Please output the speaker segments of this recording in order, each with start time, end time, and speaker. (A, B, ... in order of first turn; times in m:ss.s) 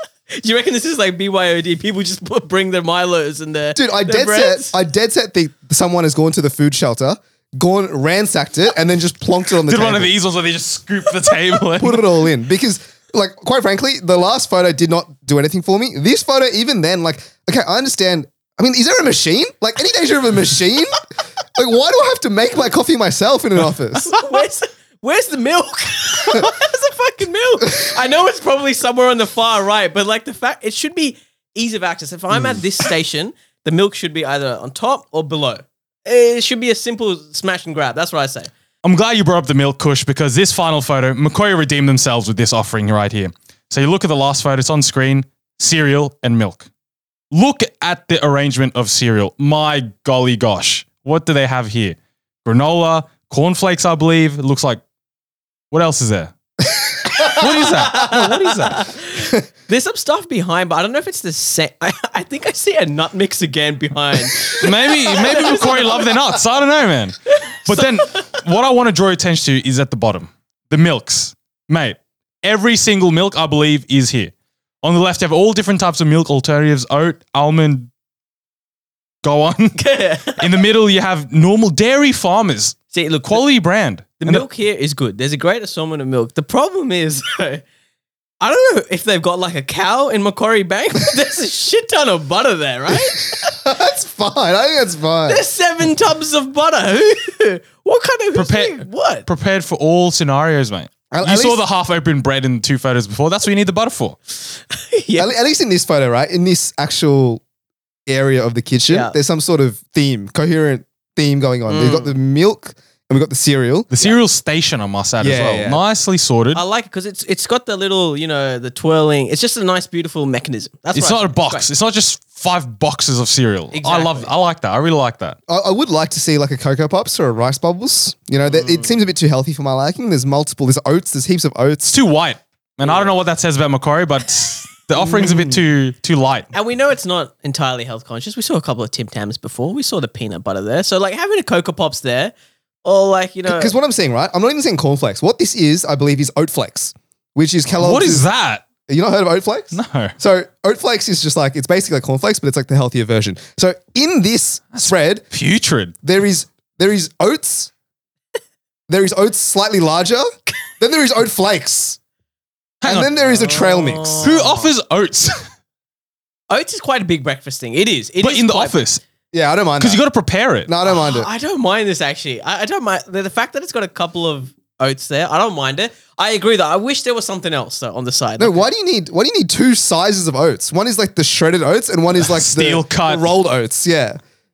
0:00.3-0:04.7 A
0:03.8-0:10.1 B
0:09.7-0:12.1 C
0:11.8-0:21.0 B
0:21.6-0:24.1 B
0:24.0-0:38.5 A
0:32.3-0:32.6 B
0:38.8-0:46.7 C
0:47.3-0:54.8 C
0:55.7-0:56.3 C
0:57.2-0:58.9 C
0:57.2-1:06.2 A
1:04.5-1:17.9 C
1:07.7-1:08.3 A
1:19.2-1:19.8 C
1:19.8-1:20.6 A
1:20.3-1:24.5 C
1:22.9-1:23.4 A
1:24.2-1:27.6 A
1:28.4-1:33.5 A
1:32.9-1:35.4 B
1:35.3-1:39.3 A
1:38.4-1:44.2 C
1:41.1-1:41.6 B
1:44.7-1:45.3 A
1:45.2-1:47.4 B
1:48.1-1:53.9 B
1:48.9-1:49.2 A
1:51.7-1:52.2 A
1:53.9-1:56.6 C
1:55.2-1:55.8 B
1:56.5-2:01.7 A
2:00.9-2:05.4 C
2:03.7-2:04.3 A
2:05.5-2:11.9 B
2:08.5-2:09.0 A
2:11.9-2:16.5 C
2:12.8-2:13.1 A
2:15.0-2:15.6 B
2:16.5-2:23.7 A
2:23.5-2:28.3 B
2:27.7-2:28.6 C
2:28.9-2:35.2 B
2:29.7-2:30.2 C
2:34.7-2:36.0 C
2:36.0-2:37.7 B
2:38.9-2:40.3 B
2:40.8-2:42.0 B
2:42.8-2:43.1 C
2:42.8-2:44.3 B
2:43.2-2:44.7 A
2:44.2-2:45.4 C
2:46.5-2:48.8 A
2:48.2-2:49.0 C
2:49.3-2:50.0 B
2:49.8-2:50.7 C
2:50.7-2:51.3 B
2:50.8-2:58.6 A
2:58.4-3:04.2 B
3:02.2-3:03.3 C